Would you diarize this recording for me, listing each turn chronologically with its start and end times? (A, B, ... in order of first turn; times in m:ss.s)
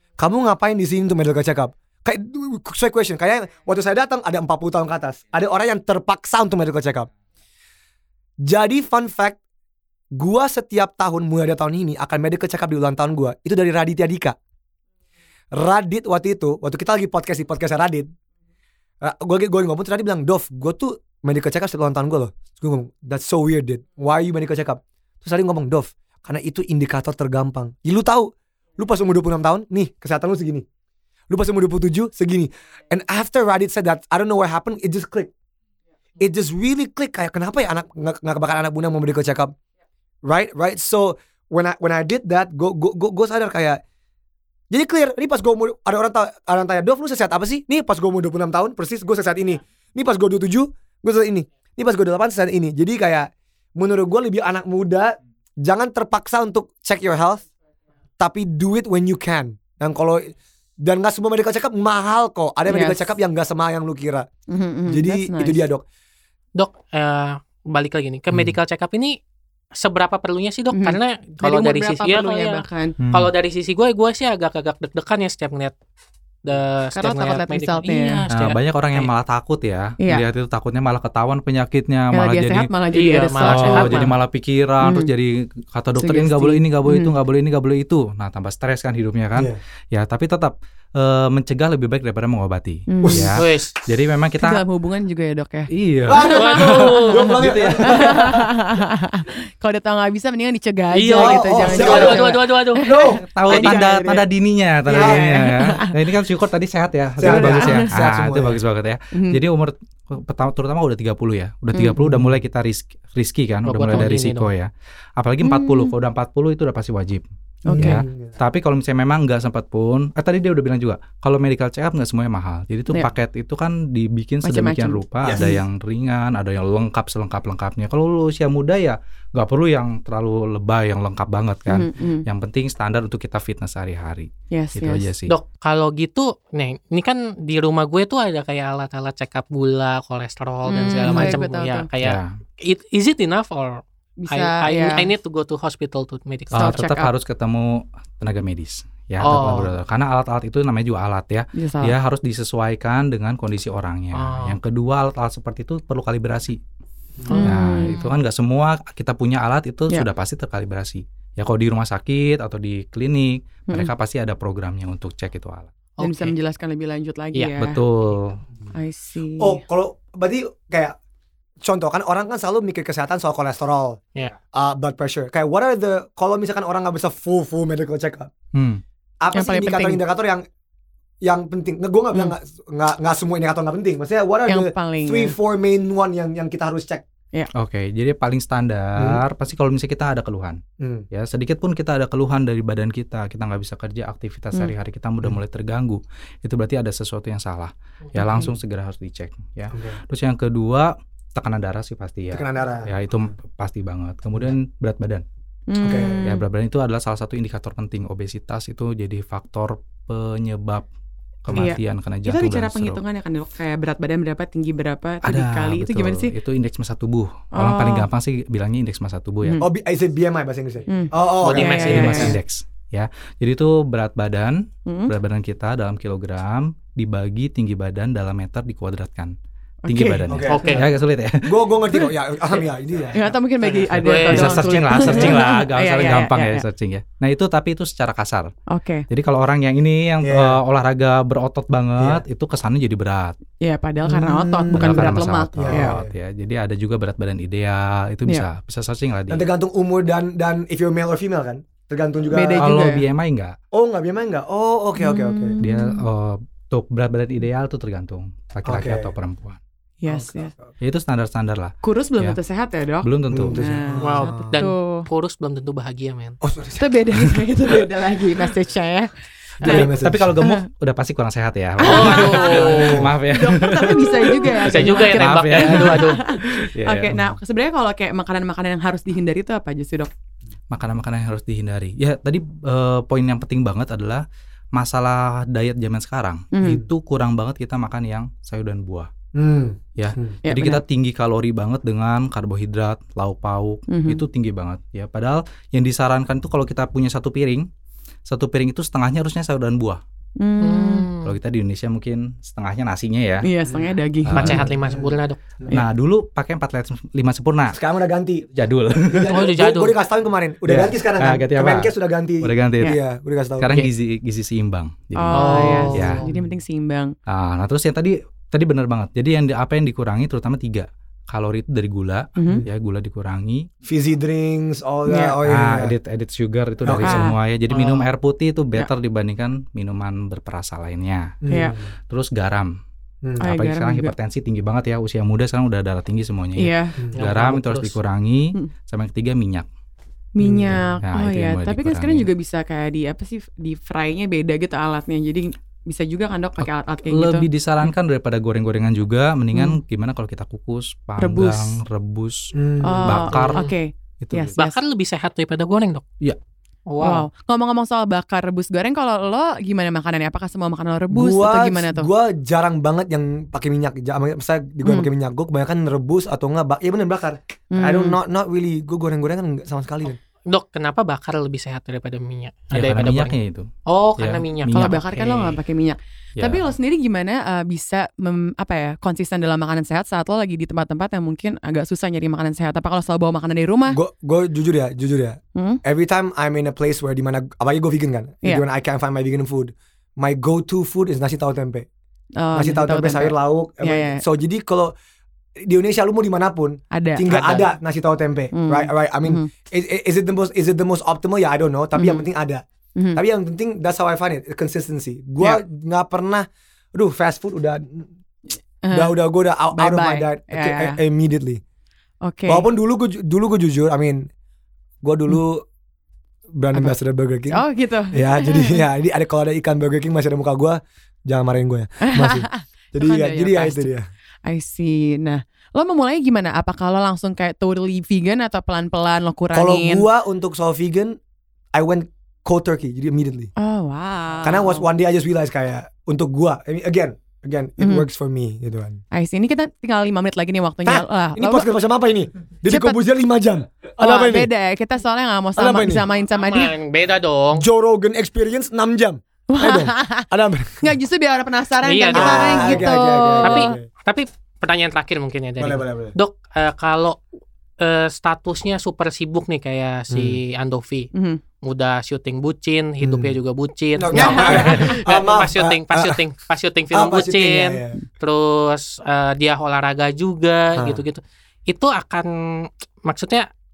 0:00.2-0:07.1 A
0:08.4-0:09.4 A
0:10.2-0:14.4 A
0:15.5-0:18.1 A
0:19.0-0:30.7 A
0:31.3-0:35.3 A
0:36.2-0:39.6 A
0:40.2-0:43.8 A
0:44.7-0:57.5 A
0:58.2-1:04.3 A
1:02.7-1:03.1 B
1:04.5-1:05.6 B
1:04.9-1:05.8 A
1:06.6-1:09.2 C
1:08.3-1:08.6 D
1:09.8-1:15.7 C
1:10.7-1:13.0 B
1:13.0-1:13.3 D
1:16.4-1:19.1 C
1:16.9-1:18.2 B
1:18.3-1:22.7 D
1:20.0-1:20.2 B
1:22.1-1:24.1 B
1:22.9-1:24.2 C
1:23.4-1:34.6 D
1:24.8-1:25.1 B
1:26.0-1:27.1 B
1:32.9-1:33.4 B
1:33.0-1:33.4 A
1:33.4-1:33.8 C
1:34.4-1:36.8 B
1:35.7-1:37.8 D
1:36.1-1:38.4 A
1:36.3-1:37.7 C
1:37.8-1:44.3 B
1:40.9-1:42.9 C
1:41.1-1:43.2 A
1:43.3-2:15.3 D
1:43.5-1:43.8 C
1:44.9-1:46.0 B
1:44.9-1:45.3 A
1:47.2-1:48.6 A
1:47.2-1:47.9 B
1:49.1-1:49.4 B
1:52.0-1:52.3 A
1:53.6-1:54.5 C
1:55.4-1:55.9 B
1:57.6-1:58.0 B
1:57.7-1:58.4 A
2:04.4-2:05.6 B
2:05.2-2:05.6 A
2:11.7-2:12.3 B
2:14.5-2:15.1 B
2:15.3-2:26.7 C
2:20.7-2:21.9 B
2:21.0-2:21.4 D
2:22.0-2:22.3 D
2:24.2-2:25.1 B
2:26.5-2:27.1 B
2:26.6-2:36.6 D
2:29.2-2:29.7 C
2:31.6-2:32.0 B
2:34.1-2:34.6 C
2:37.2-2:38.1 C
2:37.3-2:38.0 B
2:37.4-2:45.7 D
2:46.0-2:46.4 C
2:46.0-2:47.8 B
2:47.6-2:48.4 D
2:48.7-2:49.6 B
2:49.4-2:51.0 A
2:51.6-2:54.0 A
2:54.5-2:58.3 A
2:58.5-2:58.8 D
2:59.2-3:00.4 A
2:59.3-3:00.0 B
3:01.2-3:07.0 A
3:04.5-3:05.4 B
3:07.6-3:25.2 D
3:09.0-3:09.2 A
3:10.8-3:11.1 A
3:18.2-3:18.5 B
3:19.7-3:20.0 A
3:22.3-3:22.9 A
3:25.7-3:26.4 B
3:25.8-3:26.3 A
3:26.2-3:30.9 D
3:31.4-3:33.0 D
3:31.5-3:36.3 B
3:35.2-3:39.6 D
3:37.5-3:38.1 B
3:39.4-3:39.7 B
3:39.6-3:42.4 A
3:40.9-3:42.4 B
3:41.4-3:42.4 C
3:41.8-3:49.4 D
3:44.9-3:45.1 B
3:49.8-3:50.5 B
3:49.9-3:52.0 D
3:50.3-3:50.9 A
3:50.5-3:50.8 C
3:51.4-3:53.9 A
3:53.1-3:56.6 B
3:54.0-3:55.3 C
3:54.1-3:58.5 D
3:58.7-3:59.1 B
3:59.1-4:03.4 D
4:00.2-4:00.6 A
4:02.0-4:02.2 A
4:03.6-4:06.0 B
4:04.0-4:06.1 A
4:04.7-4:09.4 D
4:09.3-4:12.7 A
4:12.3-4:13.0 B
4:12.6-4:13.6 D
4:13.7-4:15.6 A
4:15.0-4:16.0 B
4:15.6-4:19.6 D
4:18.7-4:19.1 A
4:20.0-4:20.5 B
4:20.1-4:20.8 A
4:20.8-4:22.4 D
4:21.8-4:25.1 B
4:23.0-4:23.8 D
4:23.3-4:24.6 A
4:24.0-4:26.4 C
4:26.4-4:27.8 A
4:26.8-4:30.6 B
4:29.6-4:30.3 A
4:29.6-4:37.2 D
4:31.8-4:40.1 B
4:31.8-4:33.1 C
4:32.7-4:33.1 A
4:34.6-4:36.2 C
4:40.7-4:49.1 D
4:46.5-4:46.8 B
4:49.3-4:50.4 A
4:50.0-4:57.7 D
4:50.4-4:50.8 B
4:53.9-4:54.2 B
4:58.3-5:00.0 D
5:00.4-5:01.1 B
5:00.6-5:01.4 C
5:01.2-5:03.5 D
5:03.4-5:04.6 B
5:04.2-5:04.7 D
5:04.4-5:05.4 C
5:04.4-5:05.8 A
5:05.7-5:07.8 D
5:07.7-5:08.5 A
5:08.5-5:09.4 D
5:09.1-5:13.8 A
5:09.3-5:10.0 C
5:10.7-5:13.0 D
5:13.6-5:16.2 D
5:15.2-5:17.1 B
5:15.3-5:16.3 C
5:17.3-5:23.7 D
5:22.4-5:22.7 B
5:23.8-5:25.9 A
5:25.1-5:25.4 B
5:25.4-5:31.4 D
5:26.8-5:27.3 A
5:26.9-5:27.4 B
5:27.7-5:28.1 C
5:31.4-5:31.9 A
5:31.5-5:31.8 B
5:32.1-5:32.7 D
5:33.2-5:33.5 A
5:33.4-5:34.1 B
5:33.4-5:39.7 D
5:36.6-5:37.0 B
5:37.2-5:38.0 C
5:40.4-5:47.9 B
5:40.4-5:40.8 A
5:40.7-5:42.3 D
5:46.6-5:53.7 D
5:49.5-5:49.8 B
5:51.2-5:51.8 B
5:52.5-5:53.3 A
5:52.8-5:54.8 B
5:53.3-5:53.7 C
5:54.2-5:54.6 D
5:54.6-5:56.0 C
5:56.9-5:57.2 C
5:57.0-6:02.1 B
6:01.1-6:10.2 A
6:07.7-6:08.2 B
6:10.5-6:15.6 C
6:12.7-6:15.0 D
6:14.7-6:24.0 B
6:16.4-6:16.6 D
6:23.9-6:31.9 A
6:32.4-6:34.2 B
6:32.5-6:34.9 A
6:35.6-6:42.6 A
6:36.9-6:37.3 B
6:37.3-6:37.7 C
6:38.5-6:39.5 B
6:42.0-6:42.3 B
6:43.0-6:43.2 B
6:43.2-6:48.1 A
6:48.8-6:49.2 B
6:48.9-6:51.6 A
6:49.7-6:51.0 B
6:52.2-6:52.7 B
6:52.5-6:54.3 A
6:55.0-6:55.6 A
6:56.6-7:04.1 A
6:57.5-6:58.8 B
7:02.0-7:03.9 B
7:04.5-7:10.1 B
7:09.5-7:11.2 A
7:11.7-7:13.5 A
7:13.6-7:14.8 B
7:14.4-7:19.0 A
7:17.8-7:18.1 B
7:19.1-7:21.7 B
7:20.9-7:24.5 A
7:22.7-7:23.0 B
7:24.0-7:26.7 B
7:25.6-7:26.1 A
7:26.3-7:27.7 C
7:27.6-7:30.9 A
7:29.5-7:30.3 B
7:30.8-7:33.8 B
7:31.8-7:32.9 C
7:32.1-7:33.9 A
7:33.4-7:37.2 C
7:35.6-7:36.2 A
7:37.8-7:41.1 C
7:40.1-7:40.4 A
7:41.1-7:41.4 B
7:41.6-7:53.5 C
7:43.0-7:43.3 A
7:44.0-7:46.2 A
7:44.1-7:45.0 B
7:46.9-7:48.0 A
7:50.8-7:51.0 A